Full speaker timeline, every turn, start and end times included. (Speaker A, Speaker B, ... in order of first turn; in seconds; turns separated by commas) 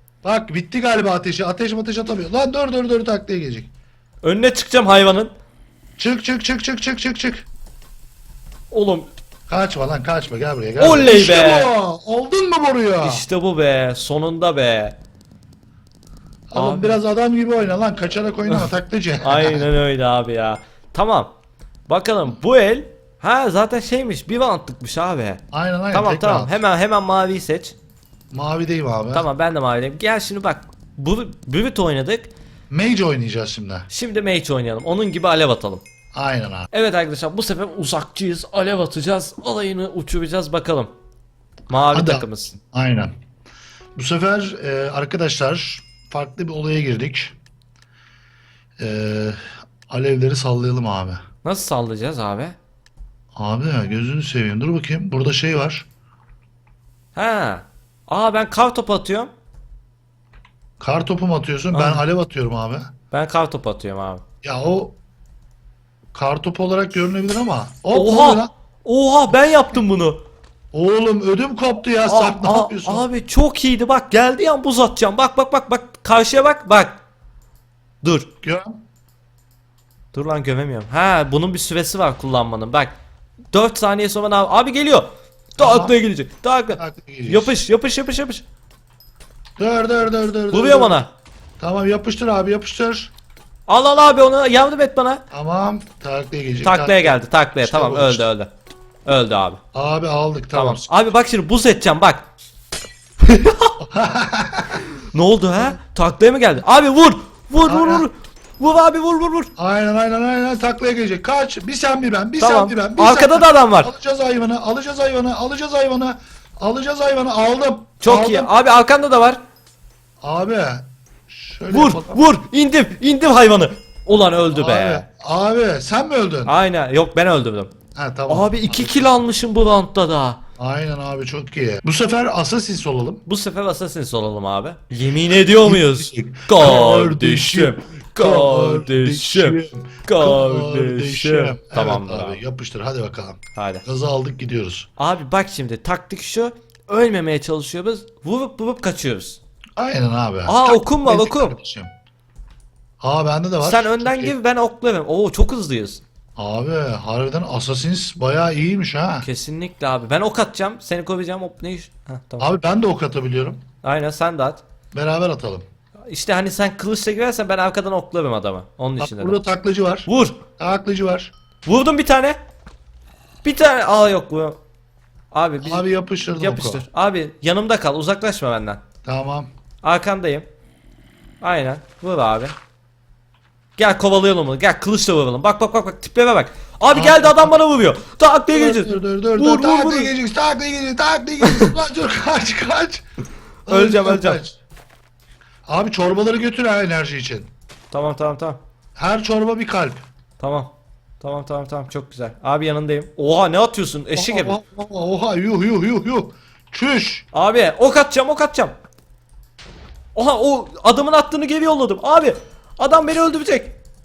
Speaker A: 0.2-3.7, Speaker B: 4.2-5.3, Speaker A: 6.0-7.5, Speaker B: 8.7-9.1, Speaker A: 9.5-13.2, Speaker B: 10.8-11.7, Speaker B: 13.0-15.0, Speaker A: 16.5-19.6, Speaker B: 16.5-17.0, Speaker B: 19.2-21.3, Speaker B: 21.9-27.7, Speaker A: 25.5-26.6, Speaker A: 28.3-29.2, Speaker B: 29.1-32.3, Speaker A: 32.7-33.9, Speaker B: 33.9-35.8, Speaker A: 36.1-36.7, Speaker B: 36.7-40.9, Speaker B: 41.7-42.6, Speaker A: 41.9-43.1, Speaker A: 44.0-47.3, Speaker A: 48.8-51.2, Speaker B: 51.4-52.5, Speaker A: 53.3-55.9, Speaker B: 57.1-59.3, Speaker A: 60.8-62.9, Speaker B: 61.7-62.0, Speaker B: 63.1-64.2, Speaker A: 64.4-65.0, Speaker A: 66.1-68.5, Speaker B: 67.9-70.2, Speaker A: 70.7-73.0, Speaker B: 72.0-77.0, Speaker B: 78.0-78.3, Speaker A: 78.4-78.8, Speaker B: 80.1-82.9, Speaker B: 83.5-88.4, Speaker A: 85.6-85.9, Speaker A: 86.8-87.5, Speaker A: 89.6-91.0, Speaker B: 90.5-91.1, Speaker A: 91.6-93.1, Speaker B: 93.7-95.2, Speaker A: 95.3-98.2, Speaker B: 96.6-98.5, Speaker B: 99.0-99.6, Speaker A: 99.7-100.9, Speaker B: 100.5-102.2, Speaker B: 103.2-103.7, Speaker A: 103.8-104.8, Speaker B: 105.0-109.5, Speaker A: 107.7-108.0, Speaker A: 109.6-118.5, Speaker B: 112.4-113.9, Speaker B: 118.0-119.4, Speaker A: 120.2-122.2, Speaker B: 121.7-125.0, Speaker A: 124.5-126.5, Speaker B: 126.5-127.7, Speaker A: 128.0-129.1, Speaker B: 128.3-130.4, Speaker A: 130.6-133.2, Speaker B: 133.2-142.4, Speaker A: 135.3-144.9, Speaker B: 143.5-143.8, Speaker B: 145.0-149.4, Speaker A: 149.8-151.9, Speaker B: 150.5-151.6, Speaker A: 153.0-154.3, Speaker B: 153.6-156.0, Speaker A: 156.3-159.2, Speaker B: 159.2-162.5, Speaker A: 162.4-163.6, Speaker B: 163.8-164.6, Speaker A: 164.9-165.6, Speaker B: 166.1-169.4, Speaker A: 169.0-171.3, Speaker B: 170.1-170.4, Speaker B: 171.6-172.4, Speaker B: 173.4-174.6, Speaker B: 175.3-178.8, Speaker A: 175.6-176.8, Speaker A: 179.0-179.5, Speaker B: 179.8-180.4, Speaker B: 181.4-182.5, Speaker B: 183.8-190.1, Speaker A: 186.9-187.5, Speaker A: 188.5-193.0, Speaker B: 191.4-191.7, Speaker A: 193.7-194.6, Speaker B: 193.7-194.4, Speaker A: 195.7-197.5, Speaker B: 197.9-198.6, Speaker A: 198.9-200.0, Speaker B: 200.4-204.6, Speaker A: 204.2-207.2, Speaker B: 207.3-208.7, Speaker B: 210.1-213.8